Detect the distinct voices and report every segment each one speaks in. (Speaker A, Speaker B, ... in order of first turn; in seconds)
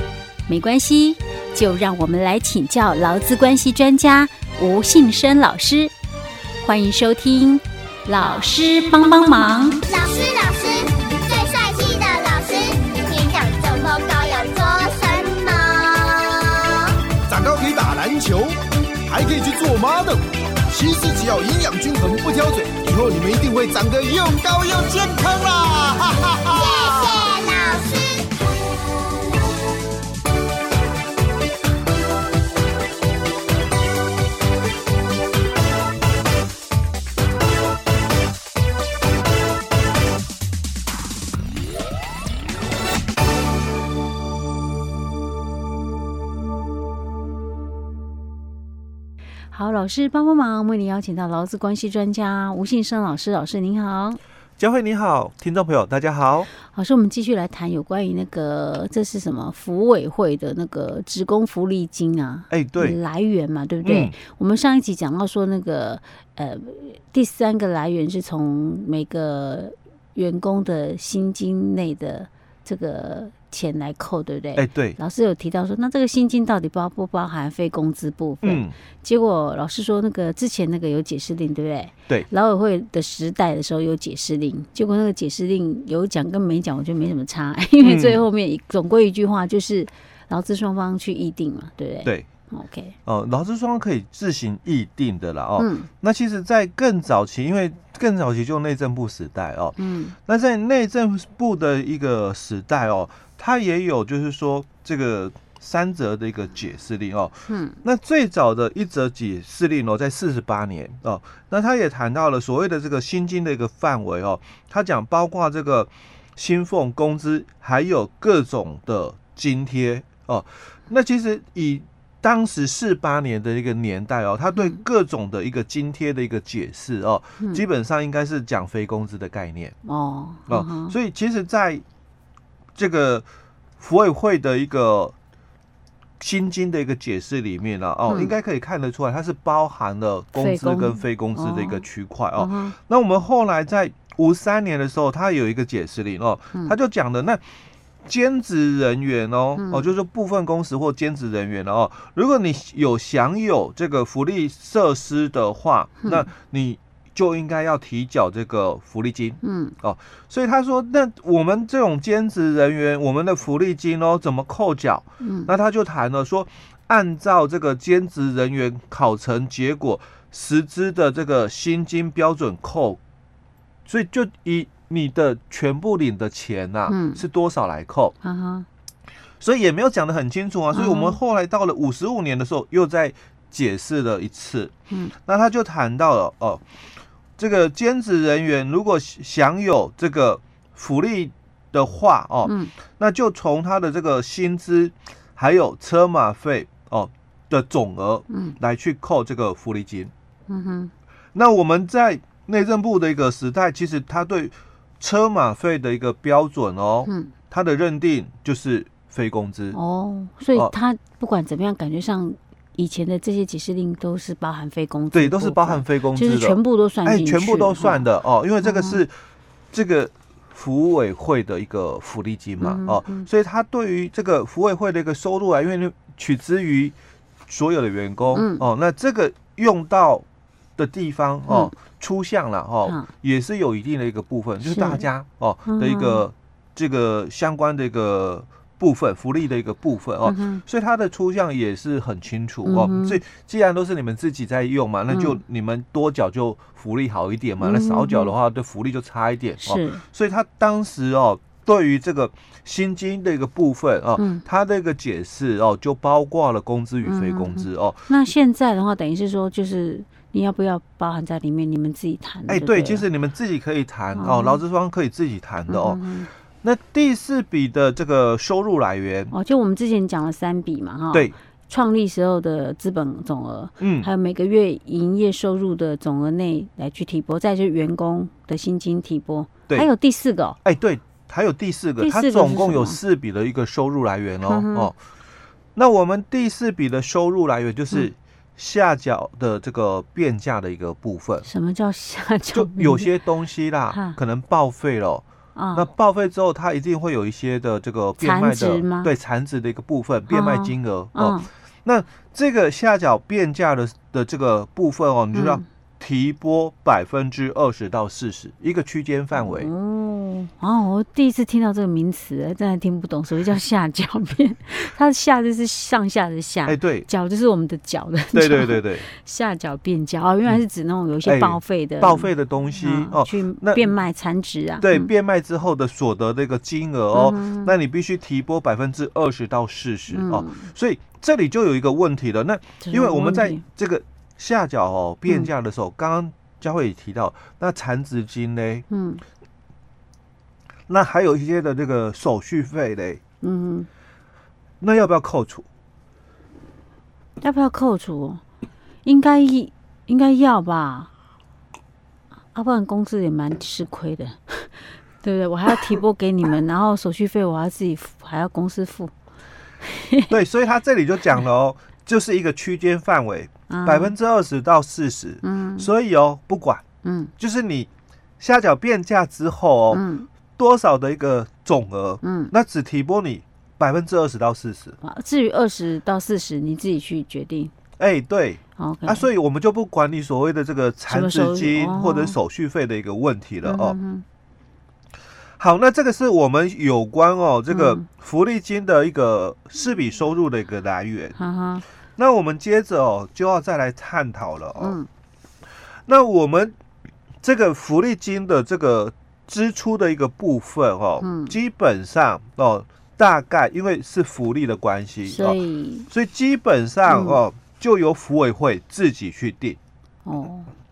Speaker A: 0.5-5.9, 6.6-9.9, 49.5-54.2, 56.6-92.9, 95.6-95.9, 99.8-100.1, 107.5-107.8, 129.8-130.9, 138.1-138.3, 140.3-141.8, 142.4-142.8, 149.6-149.9, 159.4-159.8, 165.2-165.5, 176.9-177.2, 178.2-178.7, 180.7-181.2, 192.4-192.7, 198.3-198.6, 200.5-200.9, 207.1-207.3, 209.7-218.1, 218.6-219.0, 222.6-223.3, 228.3-228.7, 231.5-231.7, 234.6-235.0, 235.7-236.2, 240.2-240.6, 242.6-243.2, 245.1-245.4, 247.6-248.3, 249.6-250.0, 254.2-254.4, 257.0-263.1, 264.1-264.6, 265.7-266.3, 269.3-280.6, 282.0-283.0, 284.4-284.9, 291.4-293.1, 293.9-294.2, 295.5-295.9, 298.2-299.1, 300.3-301.5, 305.3-305.6, 309.4-325.1, 327.1-327.7, 330.1-330.7, 332.8-333.6, 338.9-339.2, 343.4-343.9, 347.4-348.4, 349.0-351.1, 352.5-359.1, 359.8-360.3, 363.7-364.1, 365.4-365.9, 367.0-367.3, 369.9-370.3, 372.2-372.5, 375.0-377.7, 378.8-379.2, 381.1-382.4, 383.6-384.2, 387.7-388.0, 391.4-391.8, 394.8-395.1, 401.2-401.5, 405.2-406.1, 407.1-407.4, 410.2-410.7
Speaker B: 9.9-17.0, 26.5-28.5
Speaker C: 17.1-27.3
Speaker D: 54.6-56.5, 62.5-63.0, 63.8-64.2, 74.5-75.0, 78.4-78.7, 87.8-88.2, 93.0-129.7, 130.5-131.8, 132.8-133.2, 133.8-135.1, 136.2-147.4, 148.0-173.0, 173.8-178.1, 179.4-184.7, 185.2-186.6, 187.4-200.1, 201.3-209.8, 215.1-219.1, 219.7-226.9, 227.5-230.2, 230.8-258.1, 262.5-266.0, 266.6-269.3, 273.8-274.1, 280.6-284.9, 285.8-291.5, 292.5-295.2, 295.7-309.7, 316.6-317.1, 318.3-319.1, 321.2-323.9, 324.8-338.8, 340.9-343.2, 344.8-345.6, 360.3-366.8, 367.4-367.9, 368.4-370.0, 370.6-375.0, 378.0-384.0, 385.6-391.4, 392.2-395.0, 396.1-396.8, 397.4-405.6, 406.1-409.8